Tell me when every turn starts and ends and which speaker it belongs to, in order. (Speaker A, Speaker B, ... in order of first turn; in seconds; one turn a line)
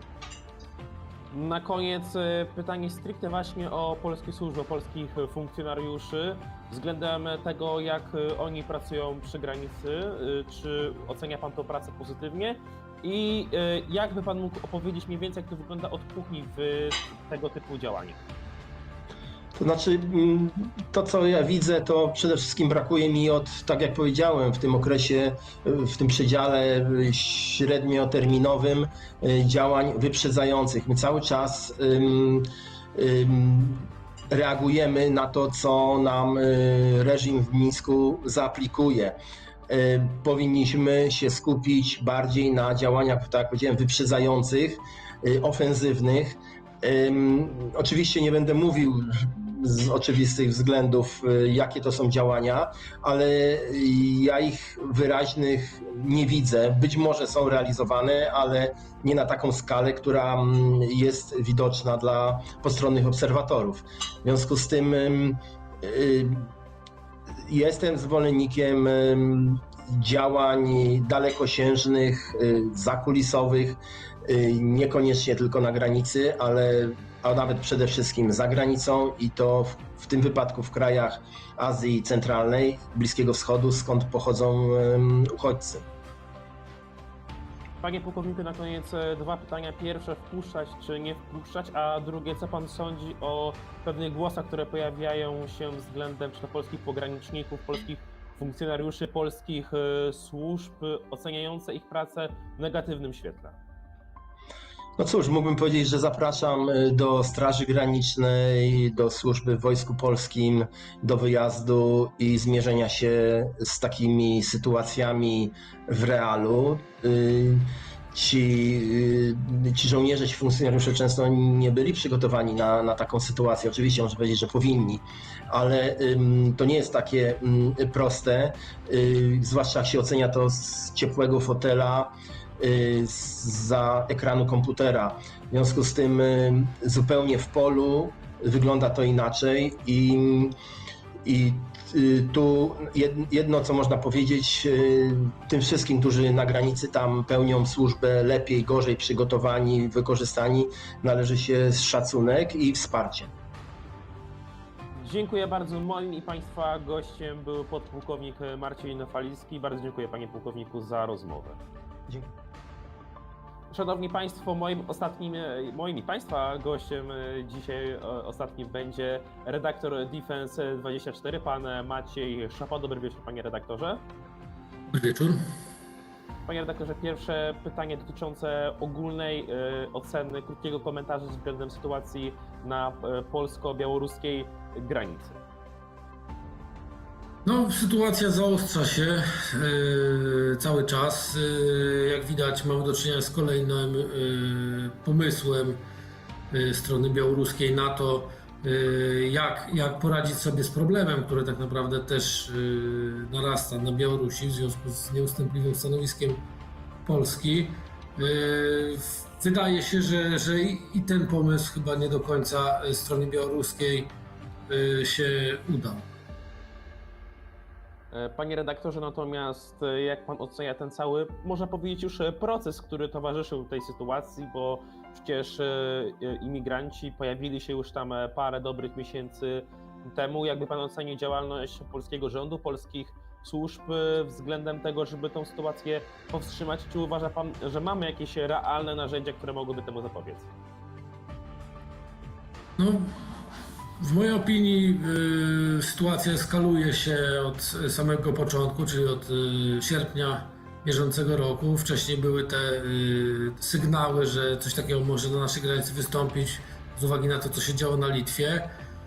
Speaker A: 1.3-18.2
Speaker B: 19.6-39.2
Speaker B: 39.7-66.5
Speaker B: 67.4-85.8
Speaker A: 87.8-103.6
Speaker B: 105.0-140.5
Speaker B: 141.2-153.3
Speaker A: 154.9-161.6
Speaker A: 163.7-174.0
Speaker C: 174.9-175.4
Speaker A: 176.5-185.4
Speaker C: 187.4-195.8
Speaker C: 196.5-206.4
Speaker C: 207.0-214.1
Speaker C: 214.7-216.1
Speaker A: 218.1-240.5
Speaker C: 242.8-243.4
Speaker C: 244.0-258.7